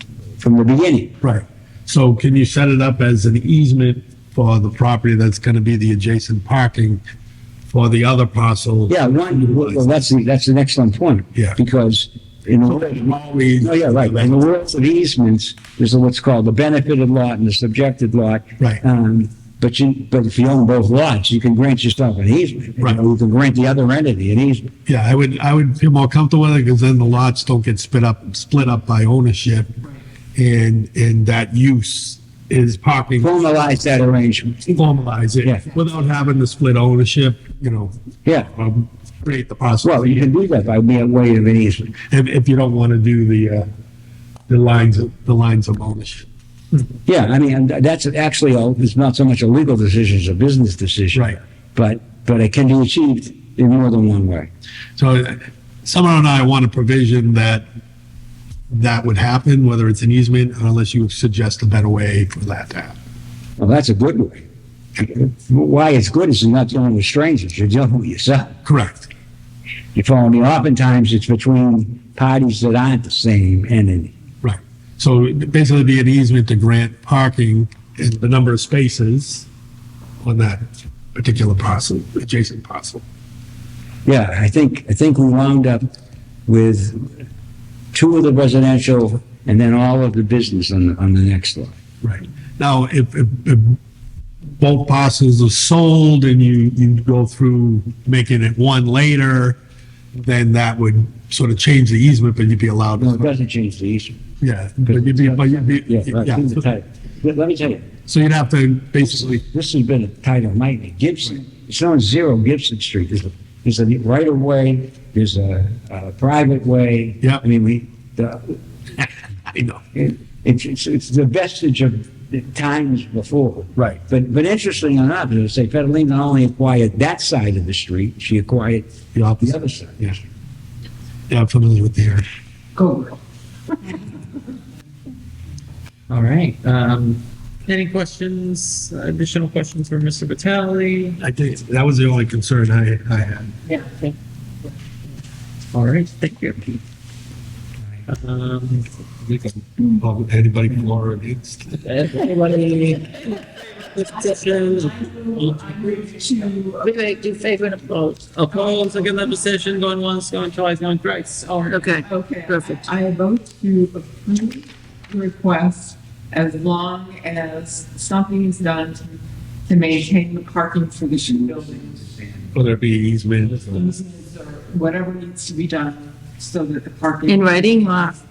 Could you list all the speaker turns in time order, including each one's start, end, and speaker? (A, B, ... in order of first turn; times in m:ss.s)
0:00.4-0:01.1 A
0:01.2-0:07.0 B
0:07.7-0:09.9 B
0:08.9-0:13.0 A
0:12.7-0:14.3 B
0:13.6-0:24.7 A
0:24.9-0:29.8 B
0:30.4-0:33.4 B
0:33.2-0:34.8 A
0:34.7-0:38.0 B
0:38.2-0:38.5 A
0:38.5-0:40.3 B
0:39.8-0:42.0 A
0:42.1-0:43.7 B
0:44.5-0:46.3 B
0:47.1-0:54.5 A
0:51.1-0:51.4 B
0:55.0-0:57.6 B
0:58.7-1:03.0 B
1:03.6-1:04.4 A
1:05.0-1:08.6 A
1:08.6-1:09.1 B
1:10.0-1:14.1 A
1:14.4-1:19.5 B
1:20.2-1:23.0 B
1:24.1-1:25.8 A
1:26.5-1:27.1 A
1:27.9-1:31.8 A
1:32.0-1:33.8 B
1:34.6-1:39.6 B
1:40.2-1:43.3 B
1:43.0-1:44.2 A
1:44.4-1:46.6 B
1:44.9-1:47.9 A
1:48.1-1:49.4 B
1:49.4-1:59.0 A
1:59.5-1:59.8 B
1:59.9-2:10.2 A
2:03.8-2:04.0 B
2:09.1-2:10.2 B
2:11.3-2:12.3 B
2:12.8-2:13.2 C
2:16.1-2:21.2 D
2:21.2-2:23.5 B
2:23.7-2:24.2 C
2:25.7-2:26.7 D
2:28.1-2:28.9 D
2:29.2-2:31.9 B
2:31.8-2:35.6 D
2:34.3-2:37.4 C
2:36.8-2:38.3 E
2:37.9-2:41.8 D
2:41.7-2:42.8 E
2:41.7-2:52.2 C
2:52.5-2:53.8 B
2:53.7-2:58.1 C
2:57.3-2:58.2 E